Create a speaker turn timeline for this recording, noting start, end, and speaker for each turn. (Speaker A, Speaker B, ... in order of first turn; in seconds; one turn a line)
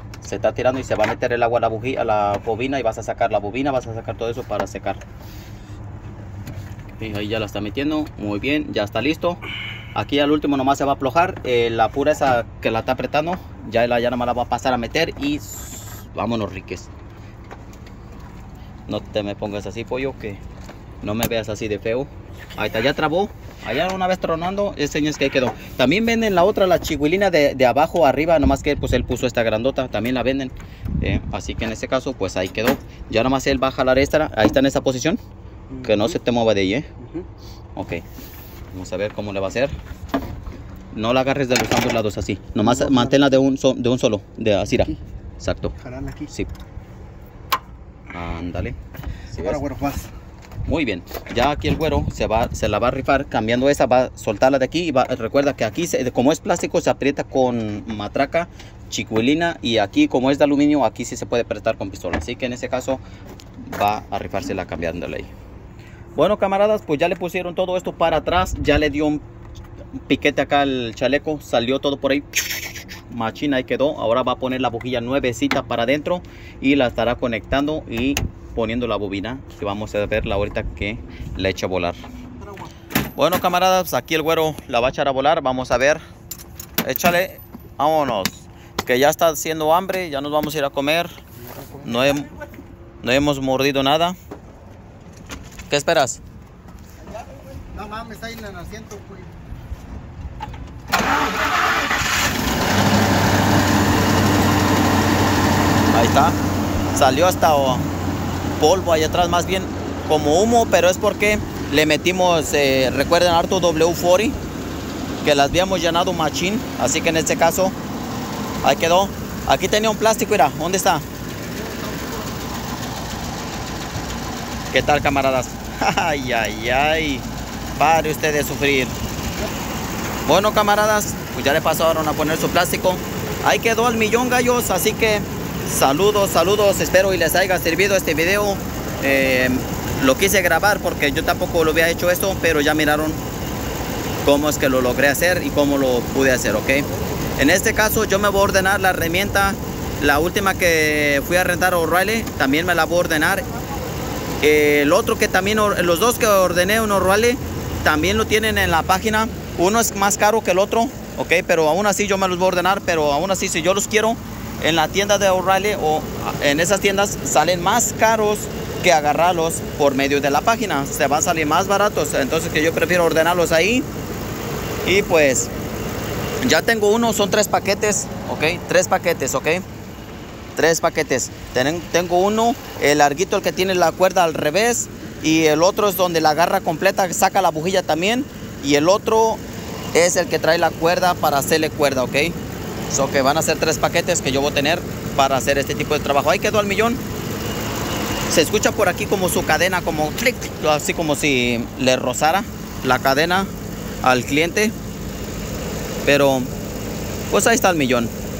Speaker A: 0.2-5.0
Speaker A: 7.0-9.4
Speaker A: 9.9-16.9
Speaker A: 18.9-20.4
Speaker A: 21.0-35.2
Speaker B: 35.7-36.2
Speaker A: 35.8-36.9
Speaker B: 37.0-37.3
Speaker A: 37.8-38.0
Speaker A: 38.7-39.7
Speaker A: 40.9-45.7
Speaker B: 42.6-43.5
Speaker B: 44.7-45.0
Speaker B: 45.8-46.3
Speaker A: 48.1-48.8
Speaker A: 49.3-49.6
Speaker B: 49.3-50.1
Speaker A: 50.6-63.0
Speaker A: 63.6-65.3
Speaker A: 66.2-69.2
Speaker A: 70.1-82.0
Speaker A: 83.2-86.0
Speaker A: 86.8-91.2
Speaker B: 91.3-92.2
Speaker A: 91.8-92.3
Speaker A: 93.0-94.2
Speaker A: 95.7-96.2
Speaker B: 97.1-99.5
Speaker A: 105.9-106.4
Speaker A: 106.9-107.9
Speaker A: 108.6-114.4
Speaker A: 115.2-117.8
Speaker A: 118.6-121.0
Speaker B: 121.3-123.2
Speaker A: 124.7-129.0
Speaker A: 130.2-143.2
Speaker A: 144.2-153.5
Speaker A: 154.4-173.9
Speaker A: 174.8-175.5
Speaker A: 176.4-179.6
Speaker A: 180.6-189.4
Speaker A: 189.9-192.4
Speaker A: 192.9-197.0
Speaker A: 198.3-203.5
Speaker A: 204.0-204.7
Speaker A: 206.0-206.5
Speaker A: 207.3-208.1